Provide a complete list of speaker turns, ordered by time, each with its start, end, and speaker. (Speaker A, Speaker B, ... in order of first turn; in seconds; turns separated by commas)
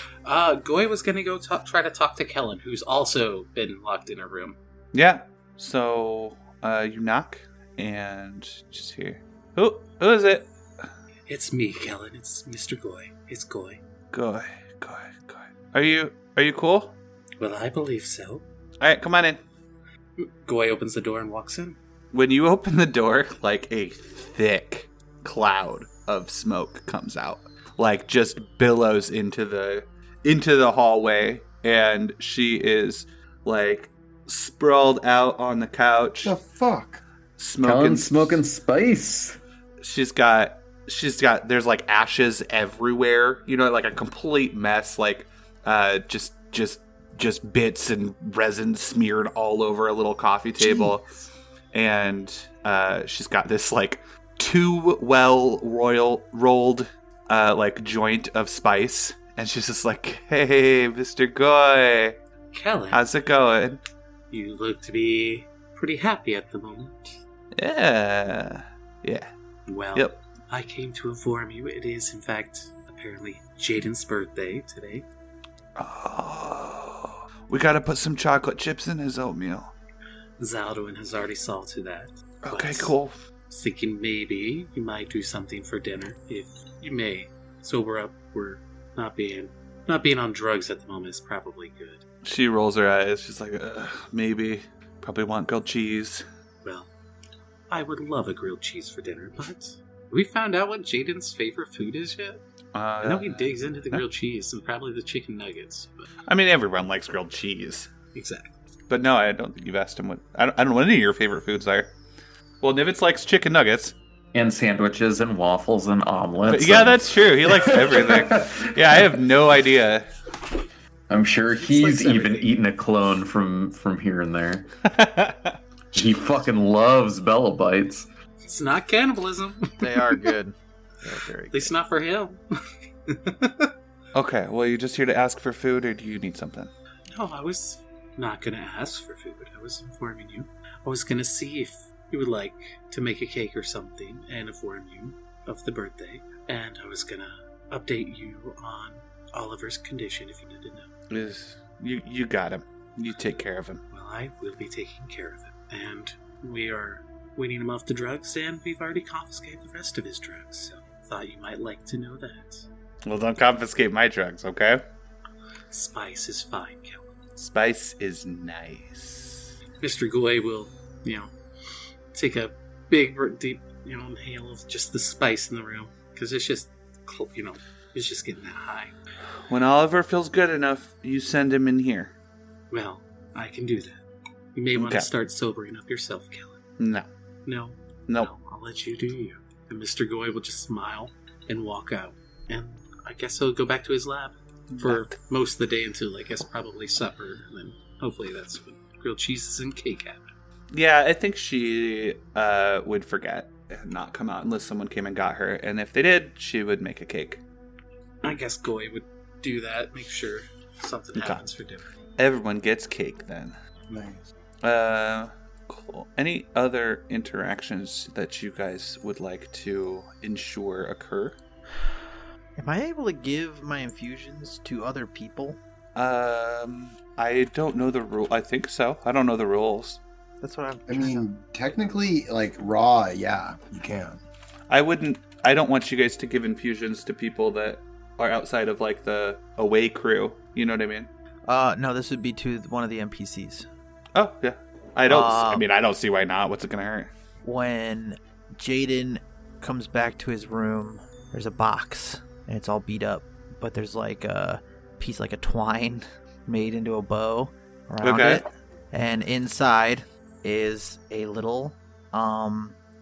Speaker A: 0.2-4.6, Speaker B: 4.9-10.8, Speaker A: 11.3-13.8, Speaker B: 14.1-16.9, Speaker A: 17.4-18.4, Speaker B: 18.8-19.4, Speaker A: 20.2-21.8, Speaker B: 22.1-36.3, Speaker C: 36.2-37.0, Speaker B: 37.4-38.4, Speaker D: 37.6-39.4, Speaker B: 39.8-51.1, Speaker C: 50.6-51.0, Speaker B: 51.7-62.2, Speaker A: 62.5-63.0, Speaker B: 62.9-63.8, Speaker A: 64.3-67.2, Speaker B: 67.5-69.3, Speaker A: 69.7-75.1, Speaker B: 75.8-79.7, Speaker A: 80.4-83.0, Speaker B: 82.4-83.2, Speaker A: 83.5-92.0, Speaker B: 92.2-96.2, Speaker A: 96.6-96.9, Speaker A: 97.7-102.4, Speaker B: 102.7-104.0, Speaker A: 103.0-106.1, Speaker B: 106.3-107.9, Speaker A: 108.1-108.5, Speaker B: 108.9-111.9, Speaker B: 112.6-114.0, Speaker D: 114.3-119.0, Speaker B: 116.5-120.1, Speaker D: 121.1-124.7, Speaker A: 121.7-122.2, Speaker E: 121.8-122.5, Speaker B: 124.9-125.6, Speaker D: 125.9-128.1, Speaker A: 128.4-130.3, Speaker E: 129.8-131.7, Speaker A: 131.5-132.4, Speaker A: 133.1-133.7, Speaker B: 134.1-136.7, Speaker A: 137.1-150.9, Speaker B: 151.1-153.8, Speaker A: 153.9-162.7, Speaker B: 163.1-164.8, Speaker A: 165.7-167.1, Speaker B: 167.4-169.5, Speaker A: 169.8-171.3, Speaker A: 172.1-178.9, Speaker B: 179.5-182.1, Speaker A: 182.7-184.0, Speaker A: 184.5-186.6, Speaker B: 184.8-185.1, Speaker B: 186.8-187.1, Speaker A: 187.5-200.3, Speaker B: 194.7-195.1, Speaker B: 200.7-207.4, Speaker A: 208.2-211.9, Speaker B: 211.2-211.4, Speaker B: 212.2-213.6, Speaker C: 213.9-214.2, Speaker B: 214.6-221.4, Speaker E: 222.6-225.6, Speaker B: 225.9-230.0, Speaker E: 230.4-231.3, Speaker C: 230.9-234.2, Speaker B: 234.7-241.1, Speaker E: 241.5-243.7, Speaker B: 244.2-247.1, Speaker E: 245.1-245.6, Speaker E: 247.4-262.8, Speaker B: 258.0-258.4